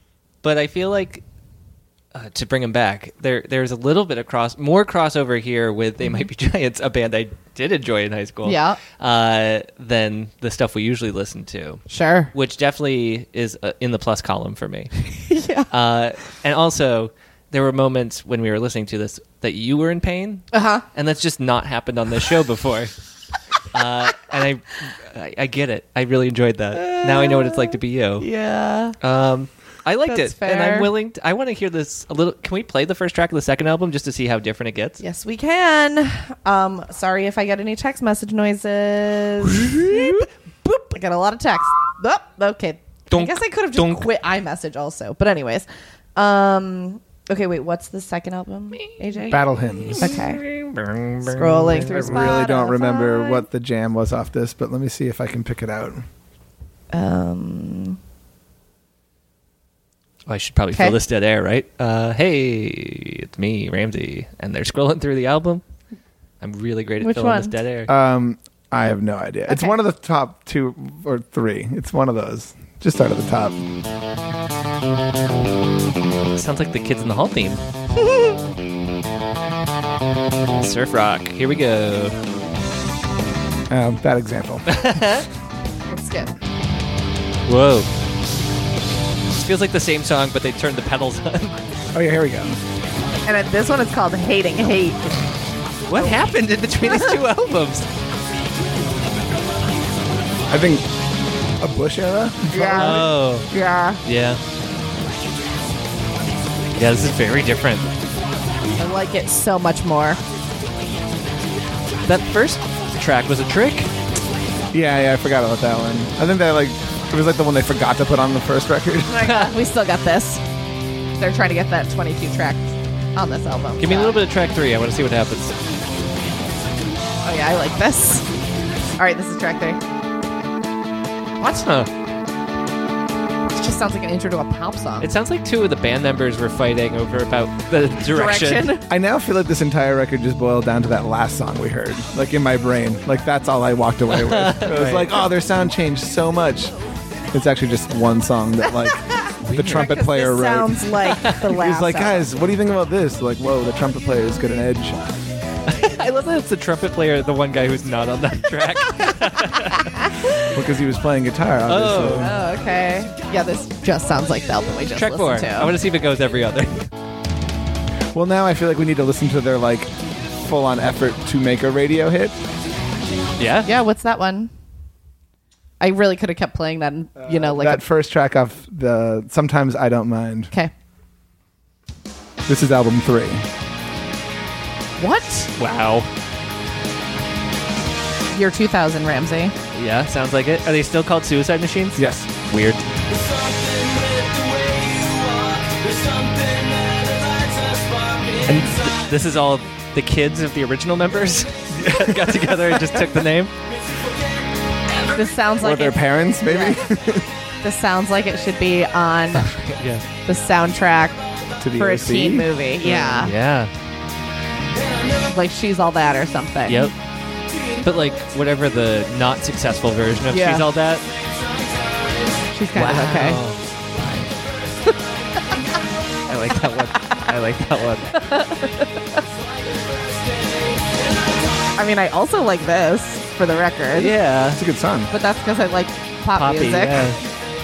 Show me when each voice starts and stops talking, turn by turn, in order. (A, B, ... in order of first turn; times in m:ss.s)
0:00.4-0:01.2 A
0:02.1-0:15.1 A
0:08.4-0:08.8 B
0:11.9-0:12.3 B
0:15.2-0:15.7 B
0:15.7-0:22.9 A
0:20.5-0:20.9 B
0:23.7-0:28.3 A
0:26.8-0:29.0 B
0:29.0-0:35.0 A
0:30.1-0:30.9 B
0:35.0-0:50.4 B
0:43.1-0:44.1 A
0:49.3-0:50.2 C
0:49.8-0:52.4 A
0:51.2-0:53.5 B
0:51.9-0:56.0 C
0:56.9-0:58.0 B
1:00.3-1:05.6 A
1:06.4-1:07.9 A
1:07.0-1:07.5 B
1:07.9-1:13.6 C
1:09.5-1:09.7 B
1:16.4-1:17.6 A
1:18.0-1:18.4 B
1:20.6-1:22.2 A
1:23.7-1:24.7 C
1:24.7-1:25.3 A
1:25.9-1:26.3 B
1:27.5-1:27.9 A
1:29.3-1:31.6 A
1:31.9-1:32.6 C
1:33.3-1:35.0 B
1:35.9-1:37.9 A
1:40.5-1:40.8 C
1:41.6-1:43.1 C
1:42.5-1:44.0 B
1:42.7-1:43.5 A
1:44.0-1:44.4 A
1:46.8-1:47.9 A
1:48.8-1:50.2 B
1:52.1-1:53.9 A
1:54.7-1:59.2 C
1:59.1-2:00.4 B
1:59.2-1:59.5 A
2:01.2-2:04.2 B
2:03.8-2:05.5 A
2:07.2-2:08.3 B
2:09.0-2:09.8 B
2:11.4-2:11.9 A
2:13.5-2:15.1 B
2:15.0-2:18.7 A
2:18.1-2:18.9 B
2:18.9-2:26.7 C
2:24.1-2:25.1 A
2:27.3-2:30.9 C
2:29.4-2:29.9 A
2:29.6-2:32.2 B
2:31.4-2:35.0 C
2:35.7-2:39.9 A
2:40.5-2:42.3 C
2:41.7-2:42.3 A
2:42.1-2:45.7 B
2:45.0-2:46.9 A
2:48.1-2:52.4 C
2:53.4-2:53.7 A
2:53.6-2:54.5 B
2:55.8-2:57.8 B
2:57.2-3:00.5 C
3:02.5-3:03.5 C
3:05.0-3:05.5 B
3:05.6-3:06.1 A
3:08.3-3:09.6 B
3:09.7-3:12.8 A
3:12.0-3:12.3 C
3:14.8-3:15.1 A
3:18.4-3:23.5 A
3:21.7-3:23.1 C
3:25.1-3:26.8 B
3:25.6-3:27.3 C
3:27.6-3:29.5 B
3:29.4-3:30.0 A
3:30.2-3:31.2 B
3:31.6-3:32.5 C
3:31.8-3:33.3 B
3:32.8-3:33.7 A
3:35.3-3:36.9 B
3:36.7-3:36.9 A
3:37.8-3:41.1 A
3:40.3-3:40.7 B
3:42.5-3:43.4 B
3:42.8-3:44.3 A
3:46.3-3:48.2 A
3:48.1-3:49.2 B
3:51.8-3:54.2 B
3:53.9-3:54.6 A
3:54.6-3:55.1 C
3:55.1-3:57.1 B
3:56.4-3:57.2 A